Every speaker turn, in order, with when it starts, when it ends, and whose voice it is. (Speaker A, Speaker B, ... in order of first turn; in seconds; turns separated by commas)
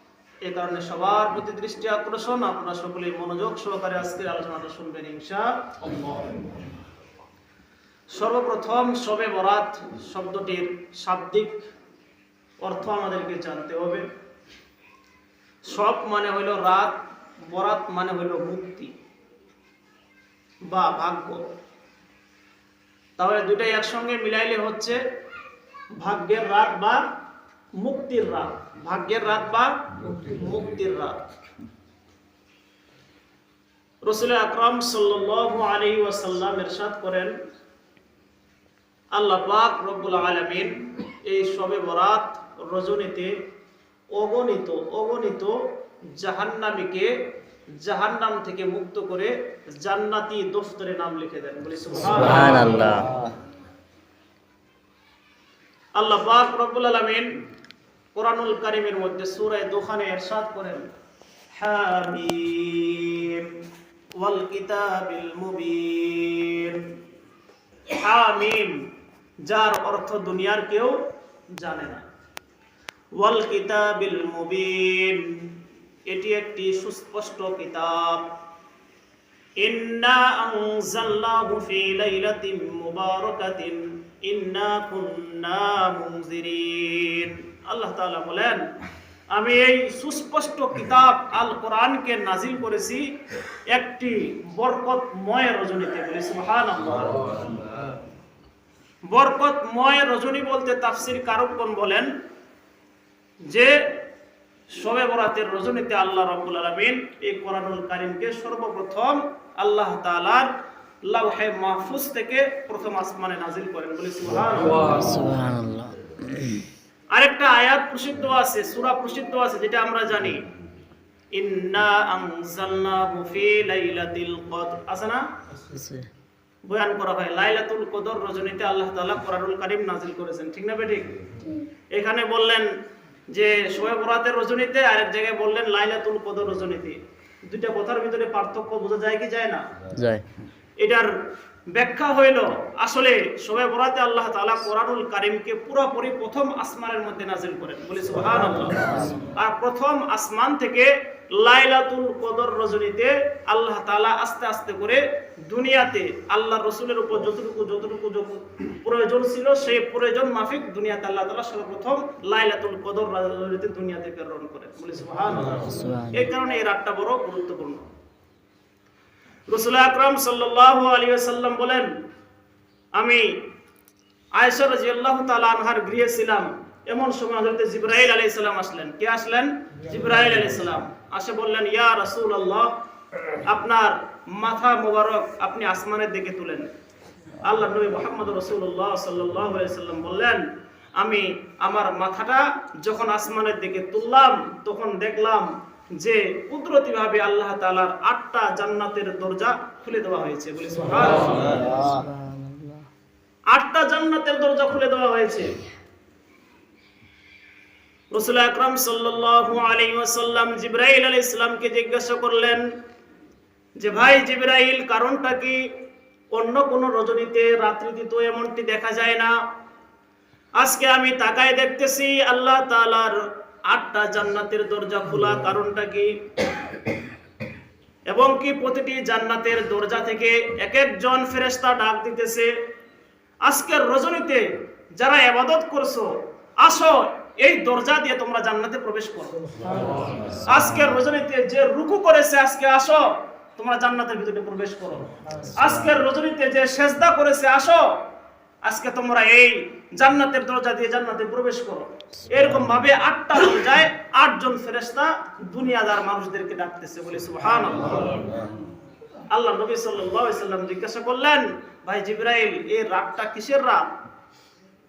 Speaker A: 0.4-6.3, Speaker A: 8.1-11.6, Speaker A: 12.6-14.1, Speaker A: 15.7-18.9, Speaker A: 20.7-21.4, Speaker A: 23.2-25.0, Speaker A: 26.0-27.0, Speaker A: 27.8-31.2, Speaker A: 34.0-37.4, Speaker A: 39.1-43.3, Speaker A: 44.1-45.6, Speaker A: 46.2-47.1, Speaker A: 47.8-53.0, Speaker B: 52.1-53.1, Speaker A: 56.0-57.3, Speaker A: 58.1-60.9, Speaker A: 61.6-63.5, Speaker A: 64.2-66.8, Speaker A: 67.9-68.8, Speaker A: 69.5-71.0, Speaker A: 71.6-72.0, Speaker A: 73.2-75.6, Speaker A: 76.1-78.3, Speaker A: 79.6-88.7, Speaker A: 89.3-93.0, Speaker A: 93.7-97.5, Speaker A: 99.1-102.1, Speaker A: 103.5-103.8, Speaker A: 104.7-110.5, Speaker A: 111.1-115.0, Speaker B: 114.8-116.7, Speaker A: 117.1-120.4, Speaker A: 121.3-125.2, Speaker B: 125.7-126.1, Speaker A: 126.7-131.2, Speaker A: 131.9-132.7, Speaker A: 133.3-139.6, Speaker B: 140.0-140.2, Speaker A: 140.8-141.1, Speaker A: 141.7-167.9, Speaker B: 165.6-166.3, Speaker A: 169.5-171.9, Speaker A: 172.9-173.4, Speaker A: 174.3-182.7, Speaker A: 183.4-186.7, Speaker A: 187.4-190.4, Speaker A: 191.0-201.7, Speaker B: 201.4-202.8, Speaker A: 203.5-205.6, Speaker A: 208.1-212.7, Speaker A: 213.8-215.6, Speaker A: 216.3-219.3, Speaker A: 220.6-223.2, Speaker A: 223.7-226.1, Speaker A: 228.1-232.5, Speaker A: 233.4-234.5, Speaker A: 235.0-239.4, Speaker B: 239.8-240.9, Speaker A: 240.4-247.9, Speaker B: 245.3-246.0, Speaker A: 248.6-258.3, Speaker B: 252.3-252.6, Speaker A: 259.3-263.9